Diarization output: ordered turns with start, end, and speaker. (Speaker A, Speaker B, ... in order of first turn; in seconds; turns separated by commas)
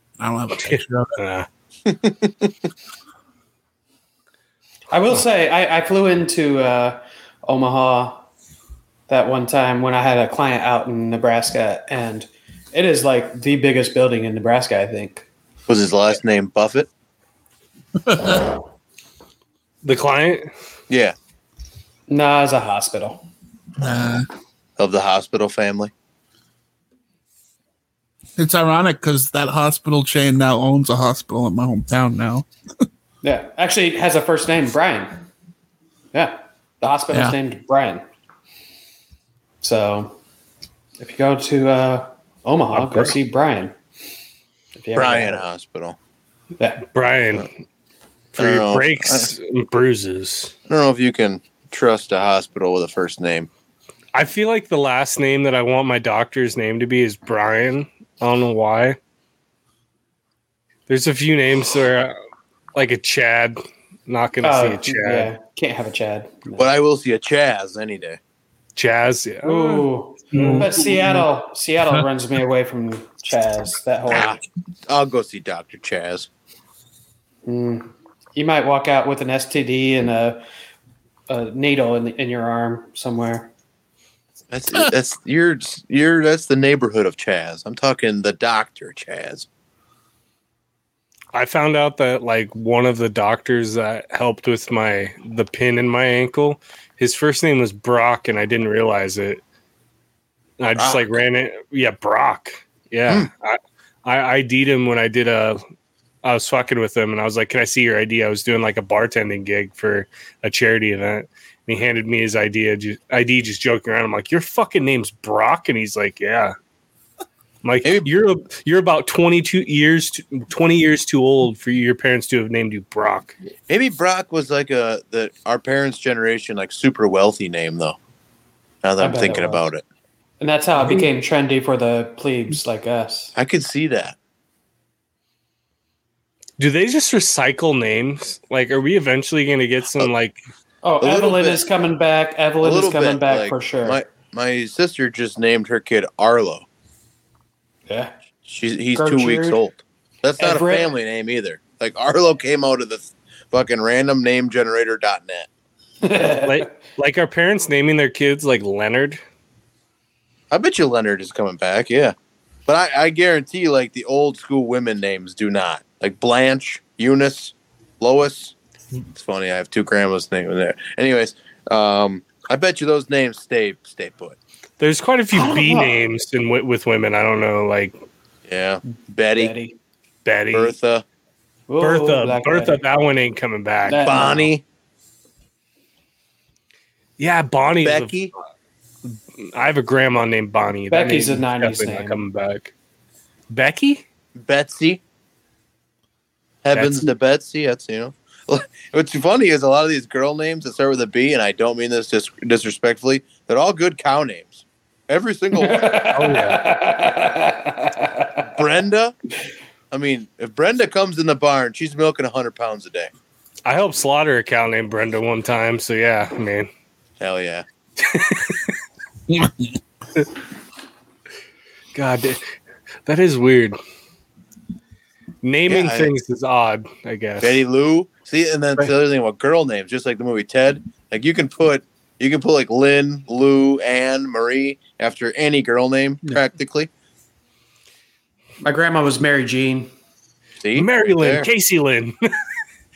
Speaker A: 0.2-1.1, Speaker B: 0.5-1.5, Speaker C: 1.9-2.5, Speaker D: 4.9-8.2, Speaker D: 9.1-15.2, Speaker C: 15.7-16.9, Speaker A: 18.0-18.4, Speaker B: 19.8-20.5, Speaker C: 20.9-21.1, Speaker D: 22.1-23.2, Speaker A: 23.8-24.2, Speaker C: 24.8-25.9, Speaker A: 28.4-32.5, Speaker D: 33.2-35.1, Speaker D: 36.1-38.0, Speaker A: 37.1-37.4, Speaker D: 39.6-40.1, Speaker D: 41.0-43.7, Speaker D: 44.7-45.4, Speaker C: 44.9-46.0, Speaker D: 46.6-46.8, Speaker B: 46.9-47.5, Speaker B: 48.3-50.5, Speaker C: 48.4-49.3, Speaker C: 50.7-53.5, Speaker B: 54.1-59.0, Speaker B: 60.9-62.1, Speaker B: 62.7-65.3, Speaker D: 64.4-66.7, Speaker C: 66.6-68.2, Speaker B: 68.8-70.8, Speaker D: 69.4-74.4, Speaker A: 70.3-71.3, Speaker C: 74.1-76.3, Speaker D: 77.5-80.4, Speaker D: 81.3-83.5, Speaker C: 84.5-89.5, Speaker B: 91.3-99.4, Speaker B: 100.6-105.6, Speaker C: 100.8-101.2, Speaker B: 106.2-116.5, Speaker B: 117.6-123.3, Speaker C: 123.7-128.0, Speaker C: 128.8-129.8, Speaker D: 129.0-129.6, Speaker D: 130.4-133.3, Speaker C: 133.3-134.2, Speaker B: 136.6-140.4, Speaker D: 140.8-144.0, Speaker C: 141.0-141.6, Speaker C: 142.6-146.7, Speaker D: 147.9-148.1, Speaker C: 148.4-155.5, Speaker D: 148.9-149.6, Speaker D: 150.4-150.9, Speaker D: 156.0-156.8, Speaker B: 156.3-159.2, Speaker C: 160.5-162.1, Speaker C: 162.7-168.5, Speaker C: 169.1-174.3, Speaker B: 174.8-177.9, Speaker D: 175.3-176.1, Speaker C: 178.5-179.5, Speaker D: 179.3-179.8, Speaker B: 180.2-180.7, Speaker C: 180.5-181.0, Speaker D: 181.7-182.8, Speaker B: 181.8-184.2, Speaker D: 183.8-184.5, Speaker C: 184.0-184.6, Speaker B: 187.2-188.1, Speaker C: 187.8-188.3, Speaker B: 189.1-192.7, Speaker D: 190.9-192.2, Speaker B: 193.5-194.0, Speaker C: 194.4-195.0, Speaker C: 196.6-206.1, Speaker B: 196.7-197.1, Speaker D: 205.6-208.4, Speaker B: 206.1-206.8, Speaker C: 208.5-209.1, Speaker C: 209.9-213.1, Speaker B: 213.7-216.7, Speaker C: 217.2-217.6, Speaker B: 218.0-218.7, Speaker A: 219.3-219.8, Speaker B: 221.9-222.4, Speaker B: 223.1-223.8, Speaker B: 225.4-227.6, Speaker C: 225.7-226.1, Speaker C: 227.4-236.9, Speaker D: 238.6-239.9, Speaker C: 240.6-241.5, Speaker B: 240.7-242.3